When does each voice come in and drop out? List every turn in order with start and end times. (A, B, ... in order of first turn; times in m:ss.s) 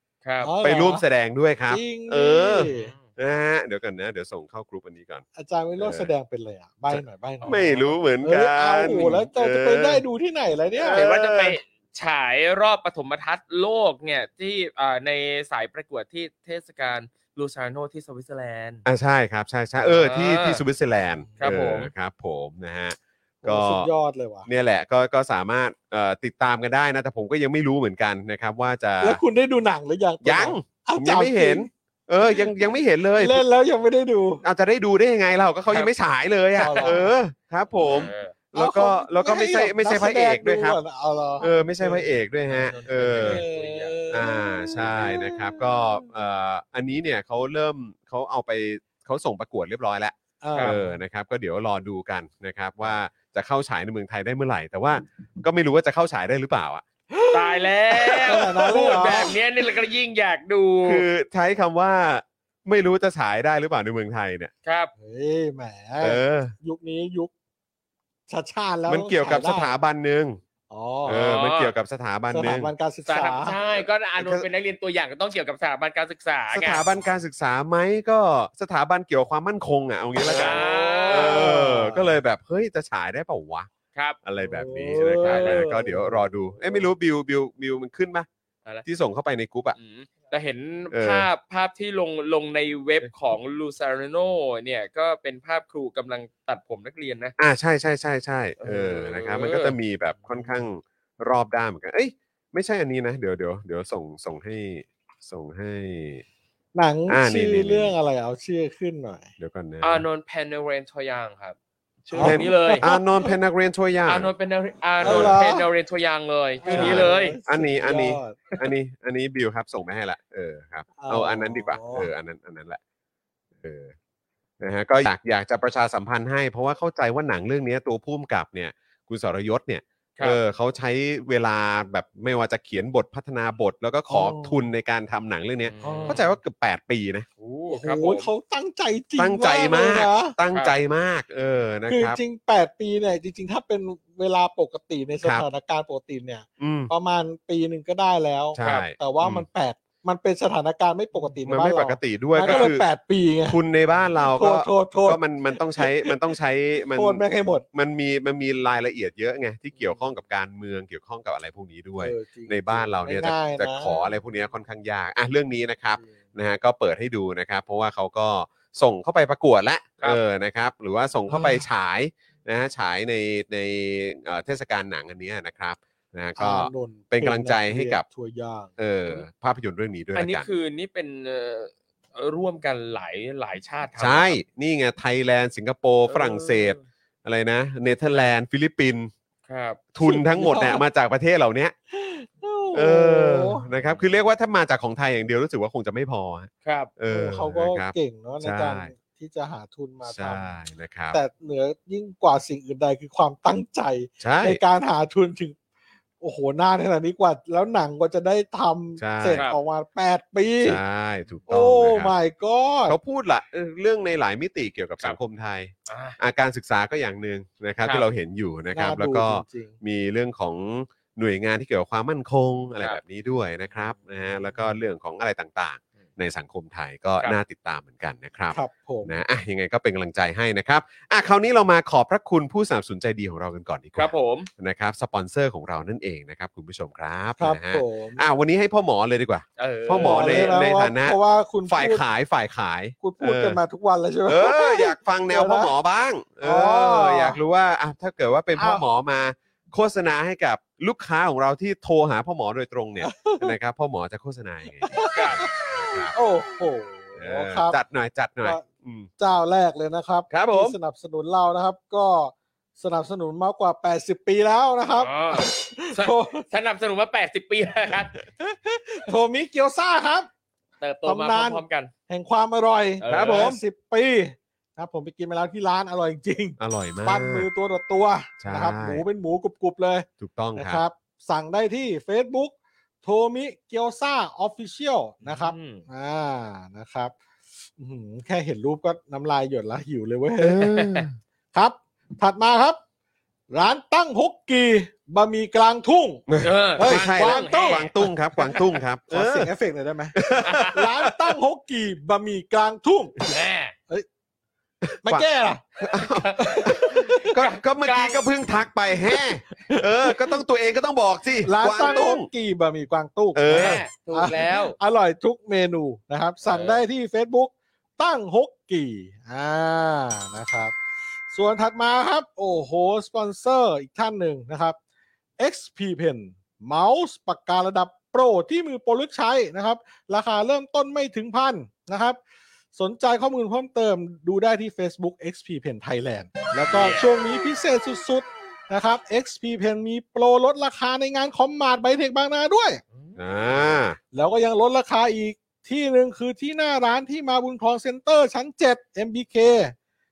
0:00.2-0:00.5 A
0:00.4-0:01.0 B
0:00.6-0:05.2 C
0:01.7-0:02.9 B
0:02.6-0:03.1 A
0:05.3-0:11.0 B
0:05.8-0:06.1 C
0:06.9-0:10.0 C
0:07.4-0:07.7 A
0:10.8-0:11.6 C
0:10.9-0:18.8 A
0:18.8-0:23.9 C
0:19.8-0:20.6 A
0:21.2-0:21.5 B
0:21.4-0:21.9 A
0:23.4-0:24.5 B
0:24.4-0:29.2 C
0:29.0-0:31.7 B
0:30.2-0:33.4 C
0:32.2-0:34.4 B
0:34.4-0:40.8 C
0:36.6-0:37.1 B
0:36.6-0:37.0 A
0:37.8-0:38.3 A
0:38.6-0:46.0 B
0:41.4-0:43.4 C
0:42.5-0:44.2 A
0:44.1-0:56.8 C
0:50.4-0:51.0 B
0:57.1-0:59.4 B
0:57.3-1:01.0 A
1:00.8-1:04.5 C
1:04.6-1:04.9 A
1:05.0-1:07.3 B
1:06.0-1:06.5 C
1:08.3-1:09.7 B
1:08.9-1:10.4 C
1:10.7-1:11.2 B
1:11.0-1:11.7 A
1:11.0-1:12.7 C
1:12.3-1:13.6 B
1:13.1-1:16.8 A
1:14.2-1:14.5 C
1:16.5-1:23.7 C
1:20.2-1:22.1 B
1:20.3-1:21.7 A
1:24.2-1:28.3 C
1:24.4-1:26.9 B
1:25.2-1:25.6 A
1:28.8-1:29.8 C
1:29.7-1:37.3 A
1:30.9-1:31.3 C
1:37.4-1:46.2 C
1:38.6-1:39.8 A
1:46.7-1:49.3 B
1:47.1-1:47.9 C
1:49.4-1:50.0 C
1:49.8-1:51.6 A
1:52.1-1:52.9 A
1:52.1-1:53.3 B
1:52.2-1:54.3 C
1:54.1-1:57.4 A
1:55.0-1:55.4 C
1:55.0-1:55.7 B
1:56.6-1:58.6 B
1:56.7-2:02.8 C
2:01.0-2:02.1 B
2:03.6-2:03.9 C
2:04.6-2:17.2 C
2:14.1-2:14.7 B
2:15.6-2:16.2 A
2:15.8-2:16.2 B
2:17.4-2:18.3 A
2:17.7-2:20.4 B
2:19.2-2:22.2 C
2:21.9-2:33.6 B
2:26.6-2:26.9 C
2:28.5-2:29.4 C
2:28.6-2:28.8 A
2:31.5-2:32.8 C
2:32.4-2:32.7 A
2:33.5-2:58.0 C
2:34.2-2:36.1 B
2:36.9-2:37.6 B
2:42.0-2:44.0 B
2:51.3-2:51.6 B
2:56.4-2:58.7 B
2:58.8-3:00.5 C
3:00.1-3:04.4 A
3:04.0-3:09.1 C
3:06.1-3:06.8 A
3:09.5-3:09.8 A
3:09.9-3:11.7 C
3:10.0-3:10.8 B
3:11.9-3:13.6 B
3:12.7-3:18.9 C
3:16.6-3:16.9 A
3:17.1-3:20.5 B
3:20.0-3:21.2 C
3:21.1-3:25.6 B
3:24.2-3:24.6 C
3:26.2-3:30.8 B
3:29.0-3:29.4 C
3:29.3-3:29.6 A
3:30.6-3:32.1 C
3:31.5-3:33.0 B
3:32.9-4:03.6 C
3:35.9-3:36.2 A
3:38.7-3:39.8 B
3:48.5-3:49.1 B
3:54.0-3:54.5 A
3:57.4-3:58.2 B
3:59.6-4:00.6 A
3:59.9-4:02.0 B
4:03.0-4:05.7 B
4:04.3-4:16.1 C
4:06.4-4:07.4 B
4:08.6-4:08.8 B
4:13.0-4:13.6 B
4:14.8-4:17.8 B
4:15.1-4:15.4 A
4:17.2-4:19.1 C
4:19.2-4:26.4 B
4:20.3-4:20.8 C
4:24.9-4:28.1 A
4:28.4-4:30.3 B
4:30.8-4:31.9 A
4:31.0-4:47.1 B
4:33.0-4:33.5 A
4:33.1-4:33.6 C
4:36.6-4:37.5 C
4:38.4-4:39.0 C
4:40.2-4:40.8 C
4:45.2-4:45.8 A
4:47.8-4:50.8 B
4:50.4-4:51.2 C
4:50.7-4:51.0 A
4:51.5-4:52.8 B
4:53.5-4:56.2 B
4:56.3-4:59.5 C
4:56.4-4:58.7 A
4:56.8-4:57.8 B
4:59.1-5:03.3 B
5:00.1-5:01.3 C
5:00.4-5:00.8 A
5:03.3-5:03.7 A
5:04.8-5:05.2 C
5:05.0-5:05.6 B
5:05.8-5:12.3 C
5:05.9-5:08.2 A
5:06.4-5:07.3 B
5:09.7-5:10.4 B
5:11.4-5:20.7 B
5:13.3-5:13.8 C
5:13.5-5:14.8 A
5:16.4-5:16.8 A
5:21.3-5:24.8 B
5:25.4-5:32.2 B
5:32.7-5:42.8 B
5:36.7-5:37.0 A
5:42.9-5:43.7 A
5:43.2-5:44.0 C
5:44.1-5:49.7 B